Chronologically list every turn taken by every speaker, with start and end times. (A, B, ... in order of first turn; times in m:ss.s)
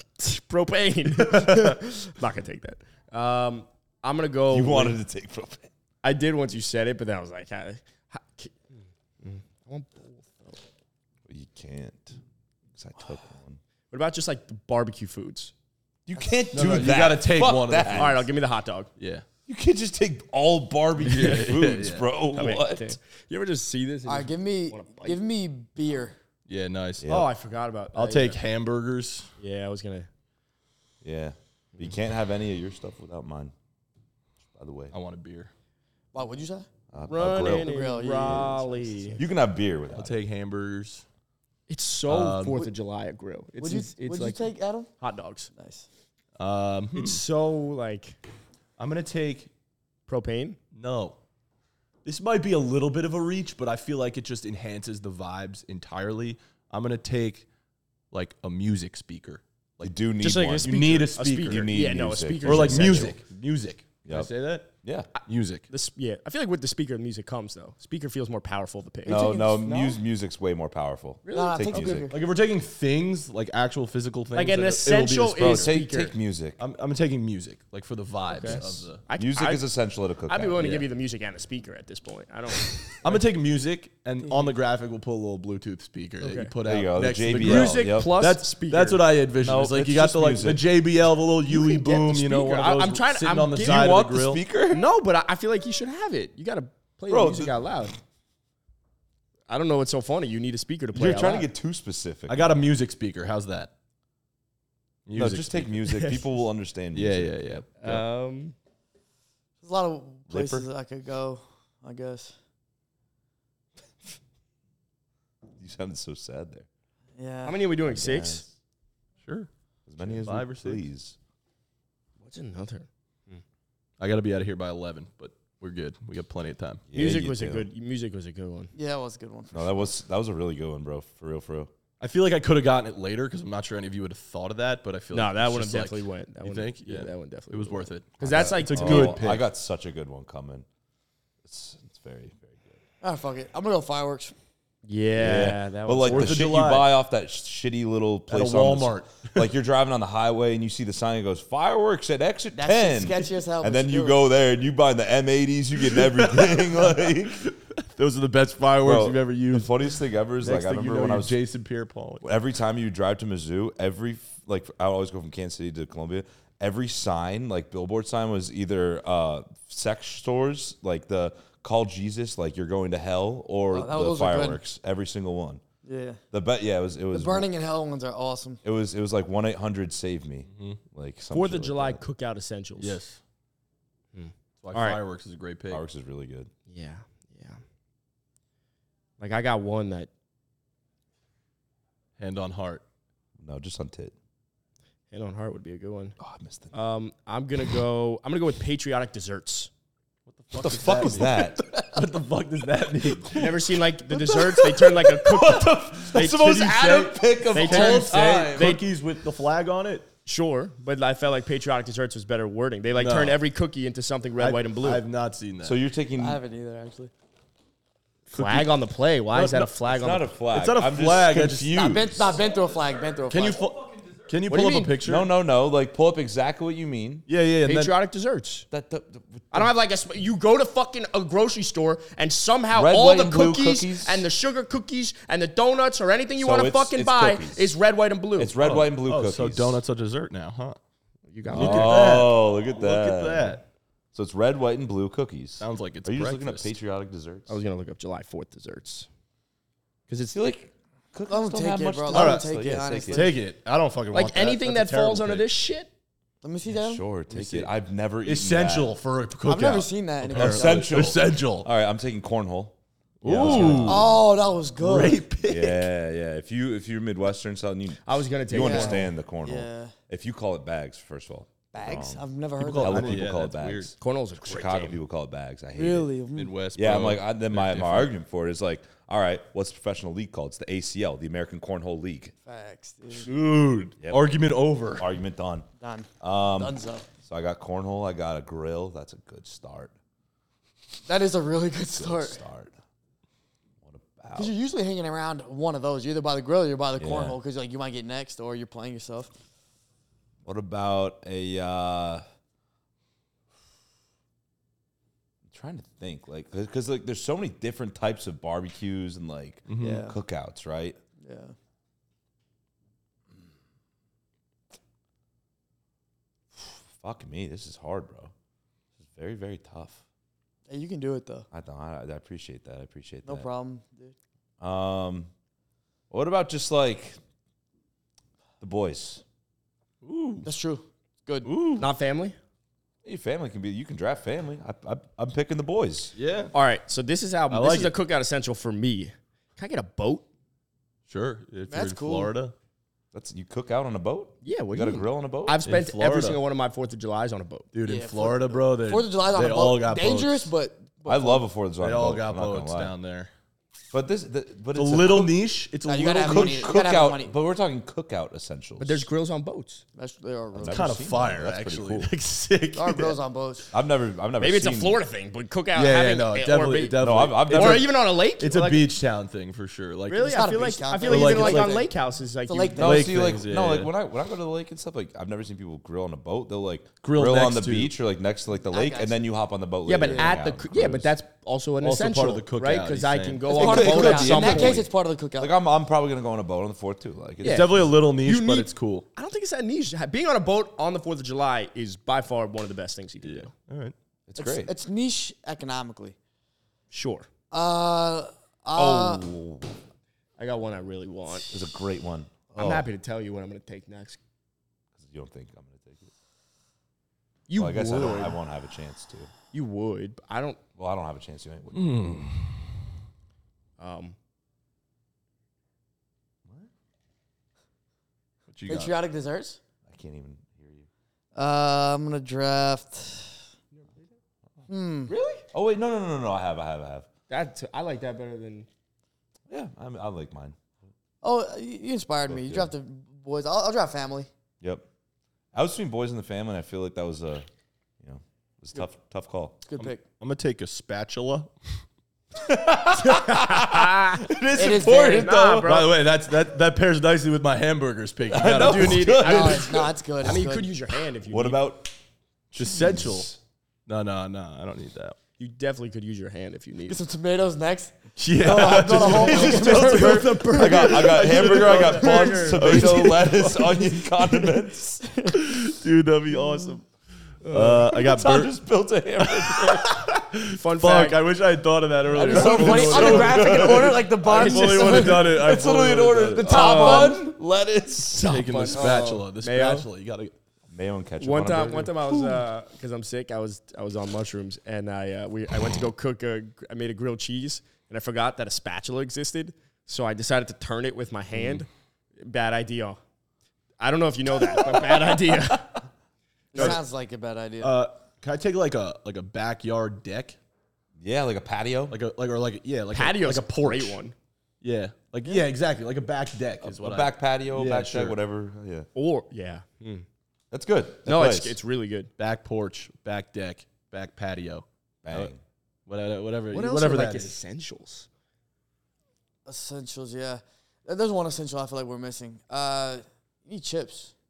0:00.2-0:05.0 A
0:01.3-0:01.7 B
0:04.5-0:05.7 C
0:06.0-0:10.6 A
0:11.3-0:12.2 C
0:12.8-0:13.6 C
0:13.9-0:15.5 A
0:16.1-0:18.3 C
0:16.5-0:18.3 B
0:17.9-0:18.9 A
0:19.0-0:19.2 B
0:19.5-0:23.0 C
0:21.0-0:22.1 B
0:22.3-0:25.2 A
0:24.1-0:26.2 D
0:26.5-0:27.1 B
0:27.0-0:27.3 C
0:27.1-0:28.4 A
0:27.9-0:29.3 B
0:29.4-0:30.1 A
0:31.0-0:33.5 C
0:34.5-0:34.9 C
0:34.9-0:35.5 B
0:36.1-0:36.7 D
0:36.9-0:37.7 C
0:37.1-0:39.2 A
0:37.4-0:39.2 D
0:38.2-0:38.5 C
0:39.2-0:40.2 C
0:39.9-0:41.0 B
0:41.7-0:45.5 A
0:42.1-0:42.7 B
0:43.6-0:44.9 D
0:45.5-0:45.9 D
0:46.4-0:47.2 B
0:47.0-0:48.2 A
0:48.8-0:49.5 B
0:50.1-0:50.6 A
0:50.7-0:51.2 B
0:52.0-0:57.5 B
0:58.1-1:00.0 B
0:59.8-1:03.2 C
1:00.2-1:03.2 A
1:00.6-1:01.7 B
1:02.4-1:04.7 B
1:04.0-1:05.1 C
1:05.2-1:05.7 B
1:05.7-1:10.0 A
1:09.1-1:12.1 C
1:11.2-1:12.0 A
1:11.3-1:12.2 D
1:12.1-1:15.7 B
1:14.3-1:16.2 A
1:15.4-1:16.6 C
1:16.6-1:19.0 B
1:18.3-1:23.2 A
1:18.5-1:20.8 C
1:20.6-1:20.8 B
1:23.0-1:34.4 B
1:26.2-1:26.5 A
1:26.6-1:28.1 C
1:27.4-1:29.0 A
1:29.4-1:30.7 C
1:31.5-1:33.9 A
1:33.6-1:34.9 C
1:34.7-1:38.0 A
1:37.1-1:37.6 C
1:39.5-1:41.5 A
1:40.9-1:42.5 C
1:42.3-1:43.7 B
1:45.1-1:46.0 B
1:45.2-1:47.6 C
1:46.9-1:48.0 B
1:47.8-1:48.6 A
1:49.6-1:52.4 D
1:50.3-1:50.7 C
1:55.6-1:56.7 C
1:57.2-1:57.6 D
1:57.4-1:58.4 A
1:57.8-1:58.5 C
1:59.2-1:59.5 B
1:59.9-2:01.2 C
2:00.0-2:00.8 B
2:02.2-2:03.4 A
2:04.0-2:06.8 B
2:06.9-2:07.7 C
2:06.9-2:08.7 A
2:08.8-2:09.8 D
2:09.5-2:11.7 C
2:12.0-2:19.5 B
2:15.1-2:19.2 A
2:18.2-2:20.7 C
2:21.4-2:22.8 C
2:23.0-2:24.3 D
2:24.8-2:26.4 A
2:25.2-2:26.9 B
2:25.2-2:37.5 C
2:28.3-2:29.5 B
2:32.6-2:34.2 D
2:35.9-2:39.7 B
2:38.8-2:41.4 C
2:40.4-2:42.3 B
2:42.2-2:55.6 C
2:53.7-2:54.6 D
2:55.8-2:56.2 D
2:56.3-2:57.5 C
2:57.1-2:58.6 D
2:58.6-3:02.0 C
3:00.5-3:00.8 B
3:01.3-3:03.0 A
3:02.8-3:03.2 B
3:04.1-3:05.0 A
3:04.6-3:05.8 B
3:05.7-3:06.5 C
3:06.7-3:07.6 A
3:09.2-3:10.1 A
3:12.2-3:12.8 B
3:13.4-3:14.1 C
3:15.1-3:16.2 A
3:16.2-3:16.7 C
3:16.7-3:19.7 A
3:20.3-3:23.6 B
3:20.5-3:22.0 C
3:23.3-3:28.8 A
3:24.1-3:28.7 C
3:26.6-3:30.1 B
3:30.3-3:35.0 A
3:33.0-3:33.4 B
3:34.4-3:35.8 B
3:35.6-3:36.4 C
3:36.2-3:37.1 D
3:38.3-3:38.8 B
3:38.3-3:40.3 A
3:39.3-3:39.7 B
3:39.8-3:42.4 C
3:40.5-3:42.0 B
3:41.8-3:43.6 D
3:43.3-3:45.3 B
3:44.5-3:45.0 A
3:45.0-3:47.3 C
3:47.3-3:47.9 B
3:47.6-3:48.7 A
3:48.7-3:49.7 C
3:49.5-3:58.5 A
3:52.7-3:54.3 C
3:56.4-3:57.8 C
3:58.4-3:59.8 C
3:58.6-4:00.8 B
4:01.3-4:02.3 A
4:01.5-4:03.6 B
4:01.5-4:03.6 C
4:04.1-4:07.6 C
4:05.6-4:06.7 B
4:07.5-4:09.1 A
4:10.1-4:10.4 A
4:10.3-4:13.3 C
4:11.3-4:13.4 D
4:12.1-4:12.5 B
4:13.1-4:15.5 B
4:14.1-4:15.9 A
4:16.4-4:17.0 D
4:16.7-4:18.9 C
4:17.3-4:21.7 B
4:19.5-4:21.0 D
4:20.3-4:24.2 C
4:23.2-4:24.1 B
4:23.3-4:23.9 A
4:23.5-4:25.2 D
4:24.8-4:25.9 B
4:25.5-4:32.2 C
4:28.0-4:29.1 A
4:28.5-4:29.9 D
4:31.7-4:33.3 D
4:32.6-4:34.0 B
4:32.8-4:36.1 C
4:34.0-4:35.0 A
4:35.8-4:36.5 D
4:36.4-4:38.1 B
4:36.8-4:42.3 C
4:42.4-4:43.3 D
4:43.2-4:45.1 B
4:44.0-4:44.3 C
4:45.0-4:45.7 C
4:45.8-4:47.1 D
4:46.2-4:49.9 C
4:51.1-4:52.4 D
4:51.9-4:52.8 C
4:53.8-4:54.5 C
4:54.4-4:59.3 D
4:57.0-4:57.4 C
5:00.4-5:02.2 C
5:05.4-5:11.0 C
5:09.7-5:10.1 B
5:09.8-5:10.2 D
5:11.2-5:11.6 D
5:16.6-5:18.3 C
5:19.0-5:20.0 C
5:20.7-5:21.5 D
5:21.5-5:23.5 C
5:23.2-5:24.1 D
5:24.6-5:25.3 C
5:26.1-5:27.2 C
5:28.6-5:29.2 C
5:30.0-5:30.5 B
5:30.4-5:31.5 D
5:31.4-5:31.9 B
5:31.8-5:32.4 A
5:33.0-5:36.1 C
5:36.2-5:36.5 B
5:36.5-5:40.3 A
5:37.5-5:38.0 B
5:41.1-5:42.5 B
5:41.7-5:42.3 D
5:43.1-5:45.6 C
5:44.4-5:47.7 A
5:45.6-5:46.4 B
5:47.7-5:50.5 B
5:47.9-5:51.4 D
5:51.1-5:52.9 C
5:51.8-5:53.3 B
5:53.9-5:55.4 C
5:54.8-5:56.7 B
5:55.8-5:57.3 D
5:56.2-5:59.1 C
5:58.8-5:59.8 A
6:00.0-6:00.9 D
6:00.5-6:02.1 C
6:00.7-6:03.2 B
6:02.7-6:03.7 D
6:03.7-6:05.0 C
6:04.4-6:08.9 A
6:05.7-6:10.5 B
6:07.0-6:07.9 C
6:10.1-6:13.0 A
6:10.3-6:11.9 D
6:11.0-6:11.8 B
6:12.5-6:13.3 D
6:12.8-6:21.1 C
6:12.8-6:13.9 B
6:17.0-6:17.9 B
6:18.7-6:19.2 D
6:19.9-6:24.9 A
6:21.8-6:24.3 B
6:23.5-6:25.5 D
6:23.5-6:24.9 C
6:25.4-6:27.8 C
6:27.4-6:33.5 A
6:27.4-6:29.1 B
6:33.2-6:34.0 B
6:34.3-6:34.7 C
6:34.4-6:36.2 D
6:36.9-6:37.3 A
6:37.5-6:39.3 D
6:38.8-6:39.2 A
6:39.0-6:39.7 C
6:40.4-6:41.5 A
6:41.5-6:42.9 C
6:42.6-6:44.2 A
6:45.0-6:46.1 C
6:47.5-6:48.4 A
6:47.6-6:49.3 C
6:49.5-6:50.6 A
6:50.8-6:52.2 C
6:51.7-6:52.6 B
6:53.8-6:54.2 A
6:58.5-6:59.0 B
6:58.7-6:59.6 D
6:59.9-7:00.9 C
7:01.4-7:03.4 D
7:04.7-7:05.1 D
7:05.1-7:05.4 A
7:05.5-7:07.1 C
7:07.3-7:08.7 A
7:09.5-7:10.6 C
7:11.2-7:14.3 D
7:12.3-7:12.7 C
7:14.6-7:14.9 C
7:15.5-7:17.5 C
7:18.0-7:19.6 C
7:19.6-7:20.0 D
7:19.8-7:21.5 B
7:22.4-7:25.7 C
7:23.0-7:26.0 A
7:24.6-7:25.4 D
7:25.6-7:29.2 B
7:28.3-7:30.4 C
7:28.4-7:31.6 A
7:29.2-7:30.7 D
7:31.3-7:31.9 C
7:32.5-7:33.3 B
7:32.6-7:33.4 C
7:33.9-7:35.2 B
7:35.4-7:37.0 A
7:36.9-7:40.9 D
7:38.2-7:43.4 B
7:38.6-7:45.1 C
7:39.3-7:43.3 A
7:45.0-7:45.4 D
7:45.4-7:46.8 B
7:47.5-7:48.5 B
7:47.5-7:47.9 A
7:47.6-7:50.0 C
7:49.2-7:56.6 B
7:50.4-7:51.3 A
7:52.1-7:55.6 D
7:52.2-7:54.2 C
7:52.4-7:55.4 A
7:55.2-7:59.0 C
7:56.4-7:57.3 D
7:56.4-7:57.2 A
7:58.2-7:59.9 A
7:58.2-8:00.3 B
8:00.7-8:02.4 C
8:01.2-8:11.7 A
8:12.2-8:13.0 A
8:13.8-8:15.8 A
8:16.5-8:16.8 A
8:16.5-8:17.8 D
8:16.6-8:16.8 B
8:17.6-8:20.4 B
8:21.0-8:22.0 C
8:21.9-8:24.0 B
8:22.9-8:24.2 A
8:24.6-8:28.2 B
8:26.6-8:28.9 C
8:29.0-8:30.1 A
8:30.5-8:31.6 C
8:31.0-8:32.1 A
8:32.2-8:35.3 B
8:35.0-8:35.4 C
8:35.9-8:37.4 B
8:36.5-8:38.1 A
8:39.5-8:44.1 D